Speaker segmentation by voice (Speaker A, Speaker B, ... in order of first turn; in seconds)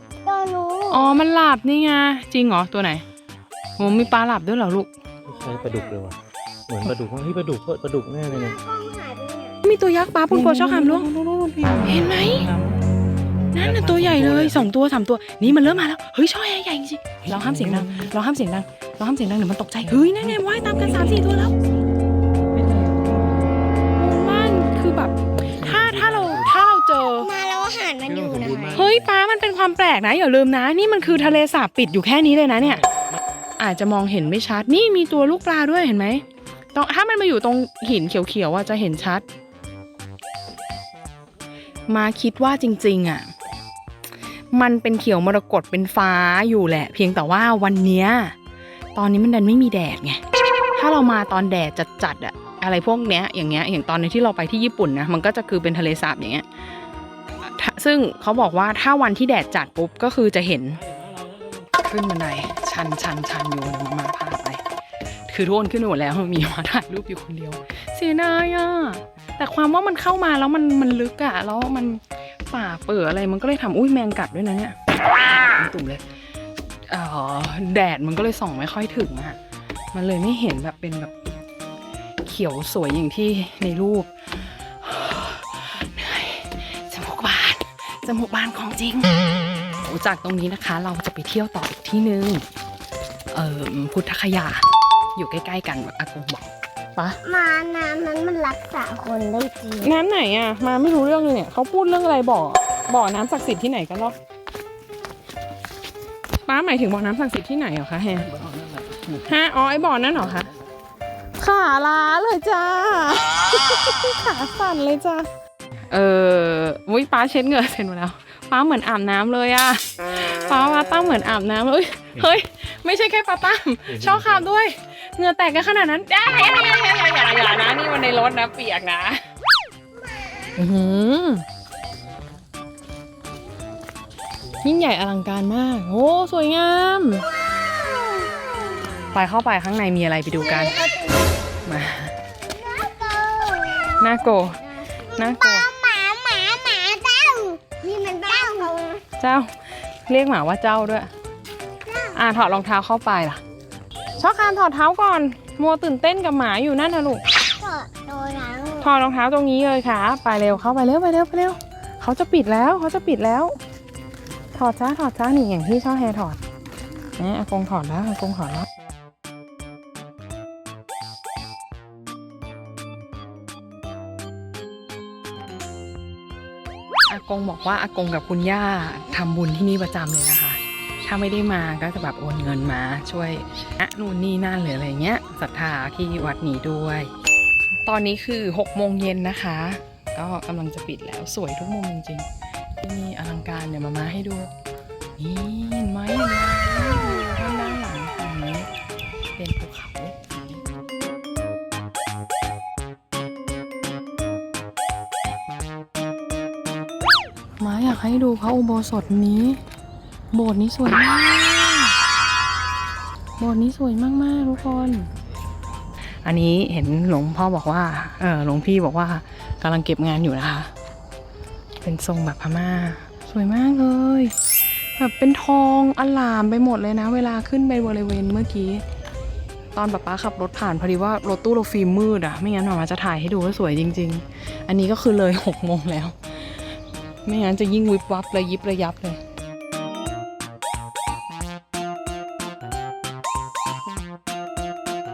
Speaker A: 0.2-1.2, 5.3-6.0, 8.3-9.6, 27.2-28.9, 97.2-100.0, 130.1-130.5, 137.9-139.1, 140.4-141.3, 142.4-144.4, 145.1-149.0, 151.8-152.2, 157.5-158.9
Speaker B: 0.9-3.0, 3.8-4.9, 9.6-11.1, 11.8-12.5, 13.5-21.5, 22.5-27.3, 28.7-32.8, 33.6-36.2, 36.8-39.2, 41.9-43.3, 44.5-48.3, 48.9-50.2, 50.8-56.5, 57.4-60.8, 61.8-64.6, 65.3-76.0, 76.9-79.4, 79.9-81.1, 82.2-89.2, 89.8-92.4, 93.3-94.6, 95.2-97.2, 99.8-104.2, 106.5-108.4, 109.1-110.5, 111.4-115.3, 115.9-129.2, 130.6-131.4, 134.6-137.2, 139.1-140.8, 141.6-142.2, 144.0-144.6, 145.1-145.7, 149.2-149.5, 150.1-151.1, 152.1-153.4, 154.2-157.2, 158.8-163.5, 164.5-166.4, 167.2-168.7, 177.1-187.1, 187.8-192.3, 192.8-194.5, 195.2-198.7, 199.3-200.4, 207.6-209.6, 210.3-211.9, 213.4-215.1, 216.2-220.7, 221.8-224.3, 225.0-228.8, 229.7-236.6, 237.2-239.2
Speaker C: 5.3-6.2, 6.7-8.6, 10.3-12.8, 13.6-14.7, 17.3-18.1, 25.3-26.6, 28.1-29.0, 123.9-124.4